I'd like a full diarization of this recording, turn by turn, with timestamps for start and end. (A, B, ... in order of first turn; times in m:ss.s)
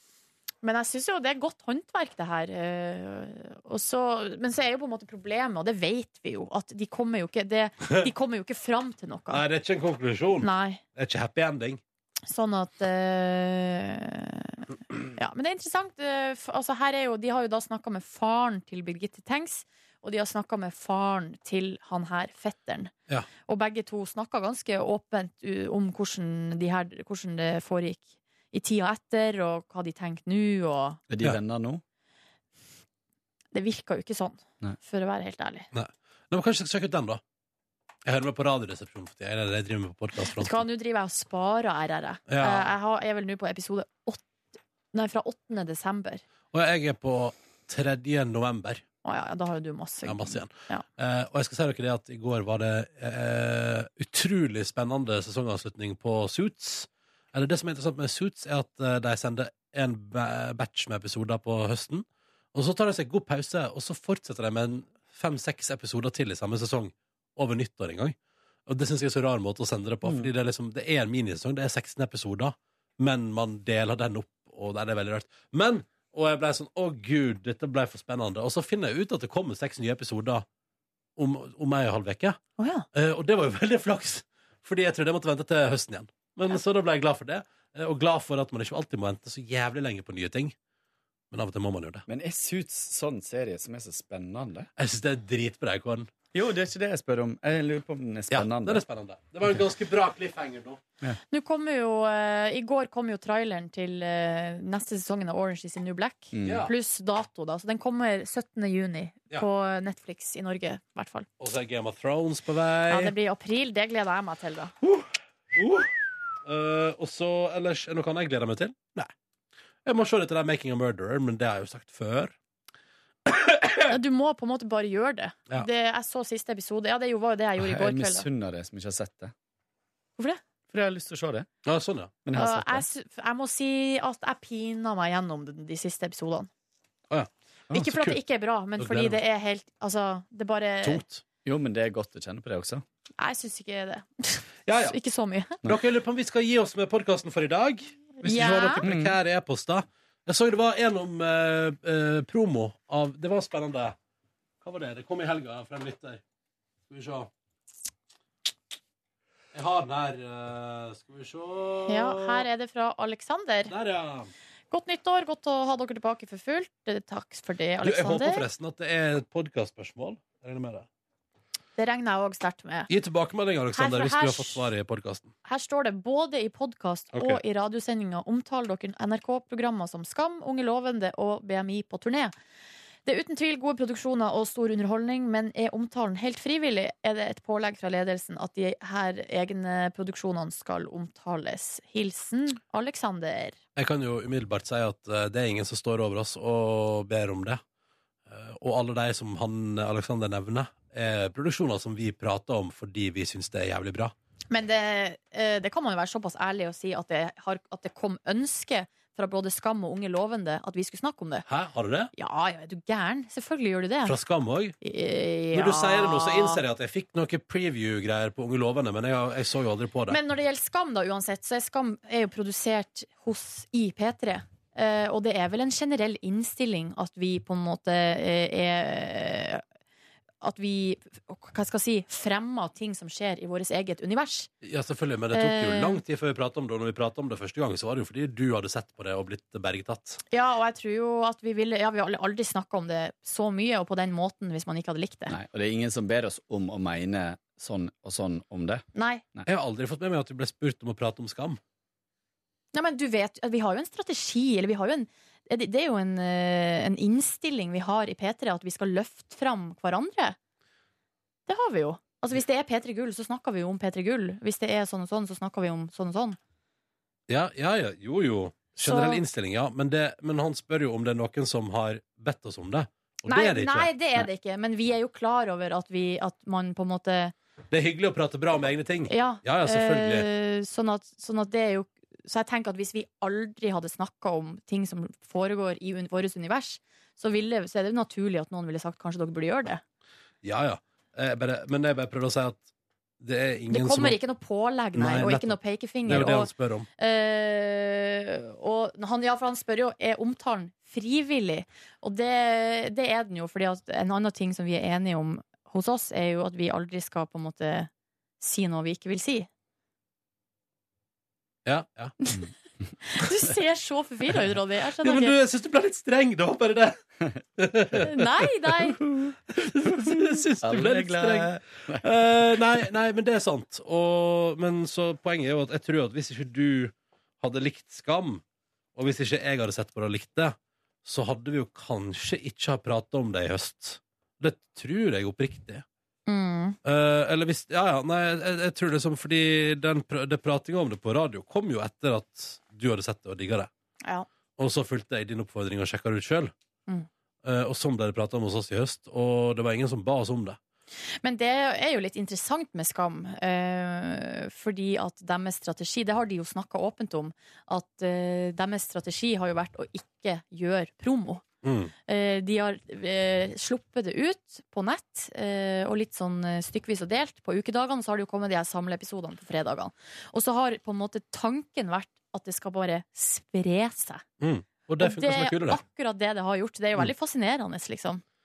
0:00.6-0:09.4 A
0:09.3-0:11.8 B
0:10.4-0:10.8 A
0:12.3-0:22.9 A
0:23.5-0:31.0 A
0:31.1-0:31.8 C
0:33.5-0:35.7 A
0:35.7-0:37.2 B
0:38.0-0:40.6 B
0:40.3-0:44.2 A
0:42.3-0:42.7 B
0:44.9-0:46.2 A
0:46.5-0:48.8 B
0:49.0-0:50.8 A
0:50.0-1:20.5 B
1:10.0-1:10.3 C
1:21.2-1:22.4 B
1:22.6-1:22.9 A
1:22.9-1:30.6 B
1:31.3-1:32.0 B
1:32.1-1:34.7 C
1:34.8-1:36.1 B
1:36.3-1:38.8 C
1:38.3-1:40.8 B
1:41.3-1:51.3 A
1:46.3-1:46.7 C
1:46.4-1:46.7 B
1:51.4-1:53.1 B
1:52.9-1:54.7 A
1:55.6-1:55.9 B
1:56.4-1:59.1 B
1:59.8-2:02.4 B
2:03.3-2:03.9 B
2:03.9-2:08.3 A
2:07.6-2:09.3 C
2:10.7-2:11.5 C
2:11.6-2:12.1 B
2:12.2-2:12.9 C
2:12.3-2:16.5 A
2:17.1-2:18.2 B
2:17.7-2:21.0 A
2:18.8-2:19.2 B
2:20.8-2:21.2 B
2:21.4-2:22.8 C
2:23.2-2:25.6 A
2:24.7-2:25.0 B
2:25.6-2:34.0 B
2:28.2-2:28.9 A
2:28.8-2:29.2 C
2:34.6-2:36.2 B
2:36.9-2:37.3 B
2:39.5-2:42.5 B
2:41.9-2:43.7 A
2:43.7-2:44.3 B
2:44.7-2:48.5 A
2:47.8-2:50.9 B
2:51.8-2:52.9 A
2:52.9-2:55.3 B
2:53.7-2:54.6 A
2:55.4-3:02.3 A
2:57.1-2:57.4 B
3:03.0-3:13.6 A
3:13.8-3:17.6 B
3:18.3-3:24.1 B
3:24.5-3:31.5 A
3:31.5-3:32.1 B
3:32.2-3:34.2 A
3:34.1-3:34.8 B
3:34.8-3:36.6 A
3:35.5-3:40.2 B
3:40.1-3:49.6 A
3:50.4-3:54.5 A
3:54.6-4:00.2 B
3:55.3-3:56.0 A
4:00.3-4:05.4 A
4:05.3-4:09.5 C
4:09.0-4:09.2 A
4:09.5-4:11.6 B
4:12.7-4:20.4 A
4:21.5-4:26.4 A
4:27.3-4:34.0 B
4:28.8-4:29.2 A
4:33.3-4:37.3 A
4:37.7-4:40.3 B
4:39.1-4:49.8 A
4:50.4-4:52.7 B
4:53.2-4:54.2 B
4:53.7-5:09.5 A
4:55.0-4:56.9 B
5:11.7-5:12.2 B
5:12.2-5:12.5 A
5:13.0-5:15.4 A
5:15.0-5:17.0 B
5:17.6-5:18.2 B
5:18.0-5:19.0 A
5:19.0-5:19.4 C
5:19.6-5:28.4 B
5:19.9-5:22.1 C
5:29.0-5:35.8 B
5:36.3-5:36.8 A
5:36.8-5:43.7 B
5:44.6-5:46.5 B
5:47.4-5:50.6 B
5:51.2-6:01.4 A
6:01.6-6:01.9 B
6:02.1-6:14.2 A
6:14.4-6:15.8 B
6:15.0-6:18.2 A